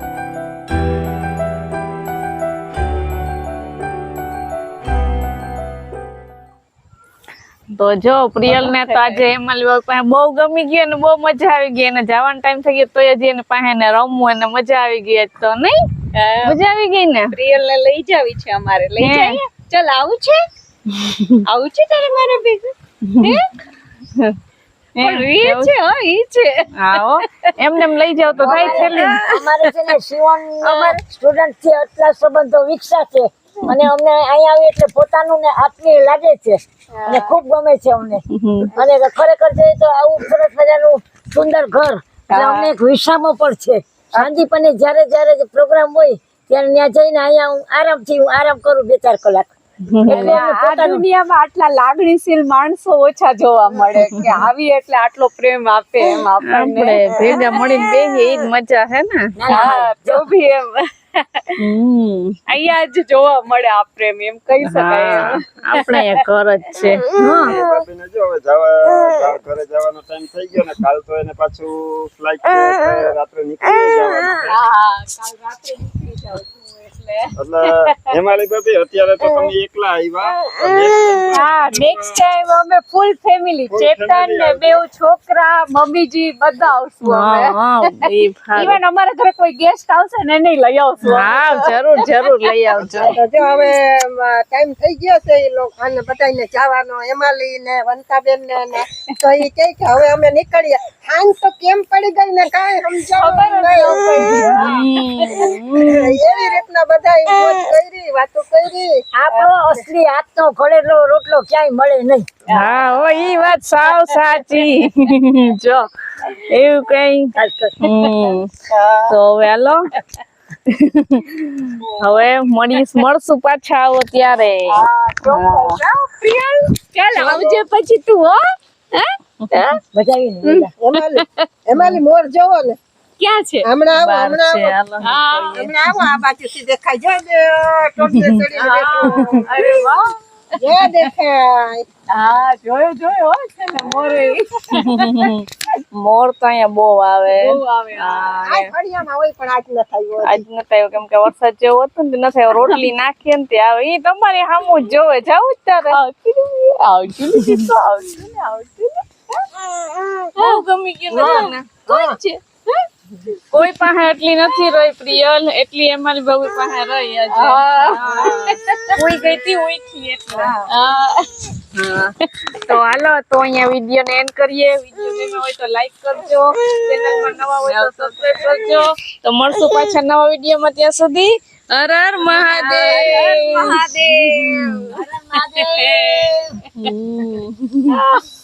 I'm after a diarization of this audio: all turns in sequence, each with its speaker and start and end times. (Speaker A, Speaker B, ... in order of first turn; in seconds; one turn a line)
Speaker A: 7.7-15.8
Speaker B: 8.4-9.2
Speaker B: 16.1-16.6
Speaker A: 16.4-17.4
Speaker B: 17.3-20.4
Speaker A: 19.0-19.4
Speaker A: 20.9-21.4
Speaker B: 21.4-23.4
Speaker A: 23.1-23.4
Speaker A: 24.9-25.7
Speaker B: 25.0-27.1
Speaker A: 26.8-29.2
Speaker C: 28.4-49.5
Speaker B: 28.4-29.7
Speaker B: 30.6-31.0
Speaker B: 36.9-37.4
Speaker A: 38.3-38.7
Speaker B: 42.3-42.7
Speaker B: 44.1-44.4
Speaker A: 49.9-50.3
Speaker C: 50.0-51.0
Speaker B: 50.1-57.6
Speaker A: 54.0-54.4
Speaker A: 56.4-59.3
Speaker C: 59.4-60.2
Speaker B: 59.5-61.6
Speaker A: 61.6-62.4
Speaker B: 62.5-66.1
Speaker A: 64.6-67.3
Speaker B: 67.1-67.5
Speaker D: 67.3-74.6
Speaker B: 74.5-77.9
Speaker D: 77.3-82.2
Speaker B: 81.3-93.1
Speaker D: 83.7-84.8
Speaker A: 87.0-88.8
Speaker A: 91.0-93.0
Speaker D: 92.7-93.2
Speaker E: 93.0-104.7
Speaker B: 103.2-105.5
Speaker A: 104.3-106.1
Speaker E: 105.7-109.4
Speaker C: 109.2-112.3
Speaker A: 112.5-119.8
Speaker B: 113.8-114.9
Speaker C: 117.3-117.9
Speaker B: 118.7-119.1
Speaker A: 120.7-124.8
Speaker B: 124.7-129.8
Speaker C: 125.3-125.8
Speaker C: 129.9-130.7
Speaker B: 130.4-131.9
Speaker E: 130.8-132.8
Speaker B: 133.2-133.6
Speaker E: 133.6-134.8
Speaker A: 133.9-135.5
Speaker B: 135.0-135.7
Speaker E: 135.5-139.7
Speaker B: 138.5-140.1
Speaker A: 139.1-139.4
Speaker E: 140.6-141.8
Speaker B: 142.1-145.3
Speaker A: 144.7-148.6
Speaker B: 147.3-148.4
Speaker E: 148.1-150.4
Speaker A: 150.2-156.0
Speaker B: 152.5-152.8
Speaker B: 155.9-159.0
Speaker A: 157.3-157.7
Speaker B: 160.3-162.4
Speaker A: 160.3-161.9
Speaker E: 161.1-162.2
Speaker A: 163.5-183.8
Speaker B: 167.3-169.3
Speaker B: 177.6-178.5
Speaker B: 182.2-184.9
Speaker C: 184.9-186.6
Speaker B: 185.6-186.3
Speaker A: 186.7-188.0
Speaker B: 187.9-188.2